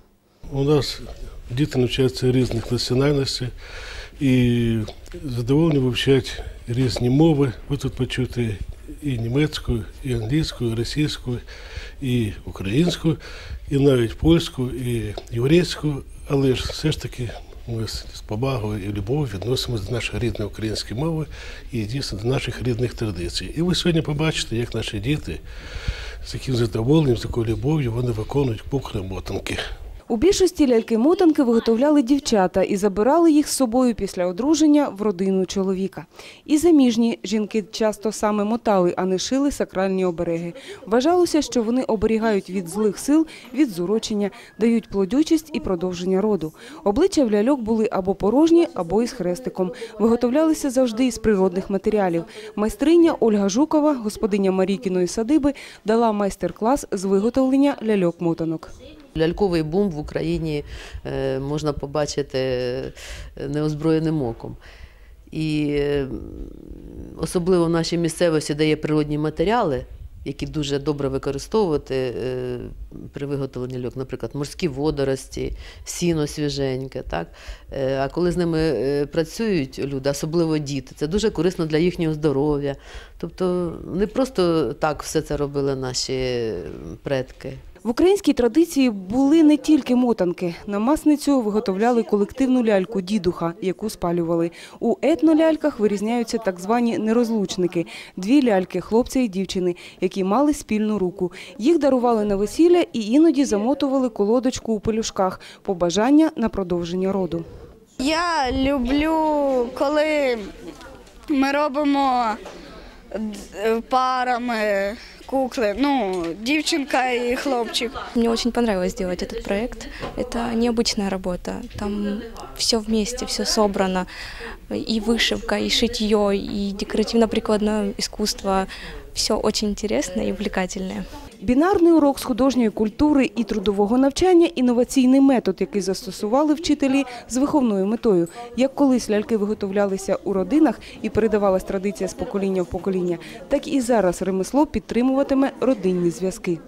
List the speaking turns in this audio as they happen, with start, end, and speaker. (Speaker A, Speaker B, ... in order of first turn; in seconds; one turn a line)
Speaker A: 0.5-3.5
Speaker A: 4.2-11.4
Speaker A: 12.0-13.2
Speaker A: 13.7-25.4
Speaker A: 26.2-29.6
Speaker B: 30.1-58.7
Speaker C: 59.1-64.6
Speaker C: 65.3-87.6
Speaker B: 87.8-107.4
Speaker D: 108.0-110.5
Speaker D: 111.3-112.4
Speaker D: 113.1-118.0
Speaker E: 118.1-124.1
Speaker E: 124.7-131.0
Speaker B: 131.4-146.6